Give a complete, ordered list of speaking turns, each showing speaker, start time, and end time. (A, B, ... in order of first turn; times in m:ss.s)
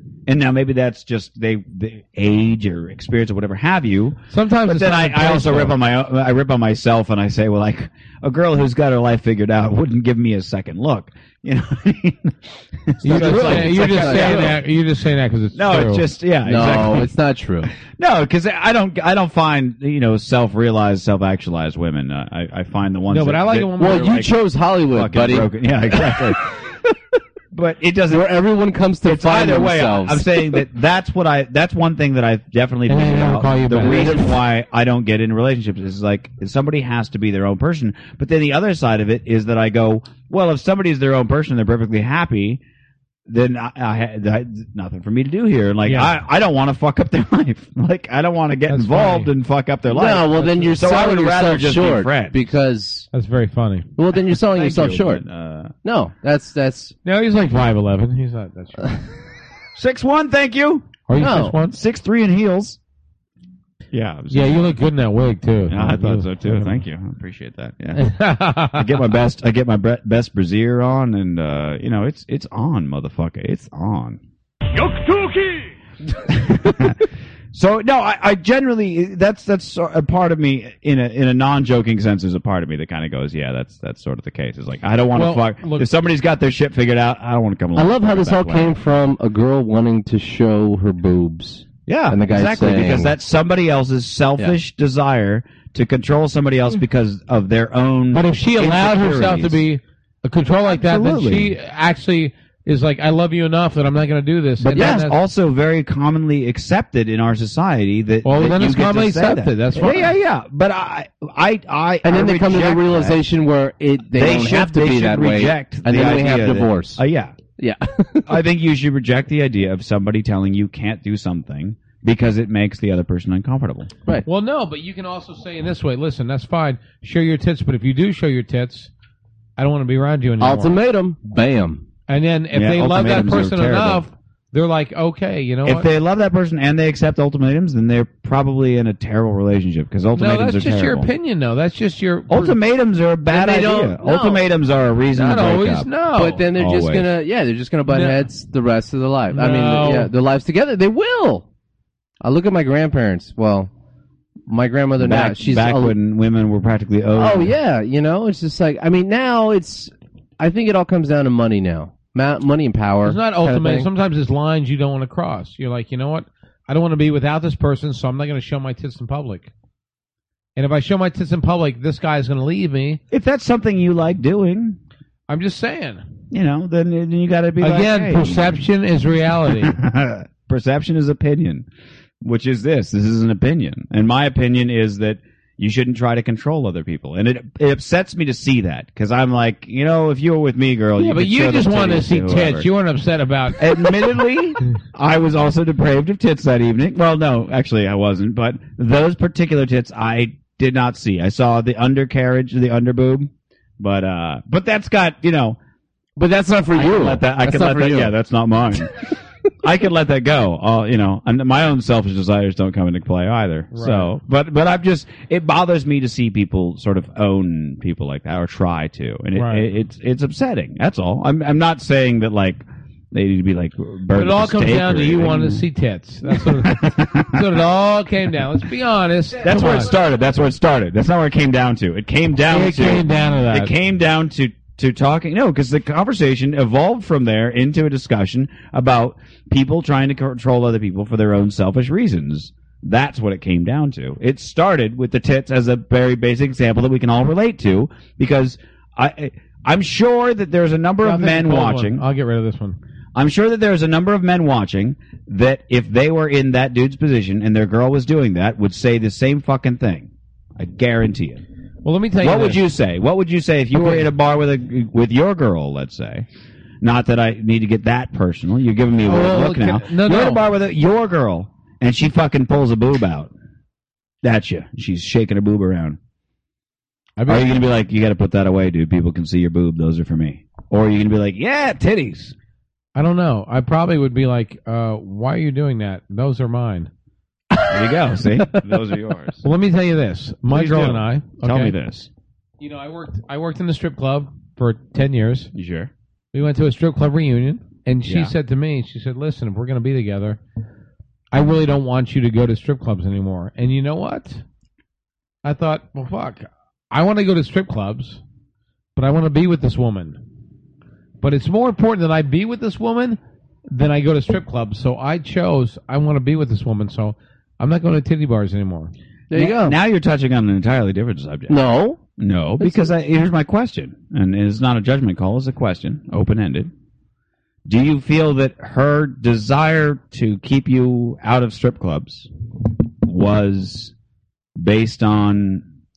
0:00.3-0:14.6 A
0:04.3-0:05.8 B
0:13.0-0:16.0 B
0:13.1-0:14.5 C
0:15.5-0:17.1 A
0:16.4-0:17.7 C
0:18.0-0:24.3 A
0:23.1-0:24.3 B
0:23.8-0:26.9 C
0:24.9-0:26.5 A
0:27.5-0:28.3 A
0:28.1-0:30.6 C
0:29.0-0:42.6 A
0:32.9-0:34.4 B
0:33.8-0:34.2 C
0:43.3-0:52.4 A
0:45.8-0:46.1 B
0:48.7-0:49.3 B
0:49.9-0:53.1 C
0:50.4-0:50.7 B
0:53.1-0:53.9 B
0:54.0-0:55.2 C
0:54.4-0:55.7 A
0:55.8-0:56.9 C
0:57.0-0:59.1 B
0:59.8-1:01.0 A
1:01.1-1:01.8 B
1:01.2-1:01.6 C
1:01.7-1:02.8 A
1:03.9-1:04.7 A
1:04.3-1:06.8 B
1:05.7-1:08.1 A
1:08.0-1:09.1 B
1:08.7-1:14.2 A
1:14.7-1:15.7 B
1:16.2-1:28.8 A
1:25.1-1:25.9 B
1:27.7-1:33.1 C
1:31.9-1:39.6 A
1:38.1-1:45.2 B
1:40.7-1:41.6 A
1:44.6-1:53.2 A
1:44.7-1:45.0 C
1:48.2-1:50.1 B
1:52.0-1:57.0 C
1:54.1-1:57.3 A
1:57.6-1:58.4 C
1:58.2-2:03.9 A
2:04.2-2:08.9 B
2:09.6-2:10.8 B
2:10.4-2:11.8 C
2:12.1-2:15.9 B
2:12.5-2:14.0 A
2:15.6-2:21.1 A
2:20.1-2:22.6 B
2:22.3-2:25.9 A
2:23.3-2:24.4 C
2:25.1-2:26.4 B
2:26.1-2:31.4 C
2:26.5-2:27.1 A
2:27.9-2:28.2 B
2:29.3-2:30.1 B
2:32.2-2:33.7 C
2:34.5-2:36.0 C
2:35.0-2:37.5 A
2:37.1-2:43.9 C
2:43.0-2:49.5 B
2:50.6-2:53.0 B
2:53.1-2:54.8 A
2:55.3-2:56.0 B
2:56.3-2:58.5 A
2:57.6-2:59.7 B
2:59.6-3:01.6 A
3:02.2-3:12.7 A
3:11.0-3:14.1 B
3:13.6-3:25.6 A
3:26.2-3:28.1 C
3:26.7-3:28.9 A
3:29.6-3:45.6 A
3:33.7-3:34.2 B
3:39.3-3:39.6 B
3:44.1-3:49.9 B
3:46.3-3:47.4 A
3:49.4-4:12.0 A
3:52.5-3:53.7 B
4:11.0-4:12.8 B
4:13.1-4:21.4 A
4:21.8-4:22.6 B
4:22.2-4:26.2 A
4:23.7-4:24.1 B
4:26.8-4:33.3 A
4:29.0-4:30.4 B
4:34.2-4:36.0 A
4:37.2-4:37.6 B
4:37.3-4:42.3 A
4:42.9-4:46.9 B
4:47.7-4:49.4 A
4:49.4-4:51.7 B
4:50.5-4:52.1 A
4:52.6-4:55.5 B
4:55.5-4:55.9 A
4:56.3-5:00.4 B
4:58.0-4:58.3 A
5:01.3-5:04.4 B
5:05.4-5:08.2 B
5:09.0-5:10.2 B
5:11.2-5:13.2 B
5:13.7-5:18.9 B
5:19.3-5:19.8 C
5:19.3-5:21.6 A
5:21.5-5:22.0 C
5:22.2-5:26.7 A
5:22.6-5:22.9 C
5:27.6-5:32.3 A
5:33.0-5:33.9 A
5:34.6-5:35.6 A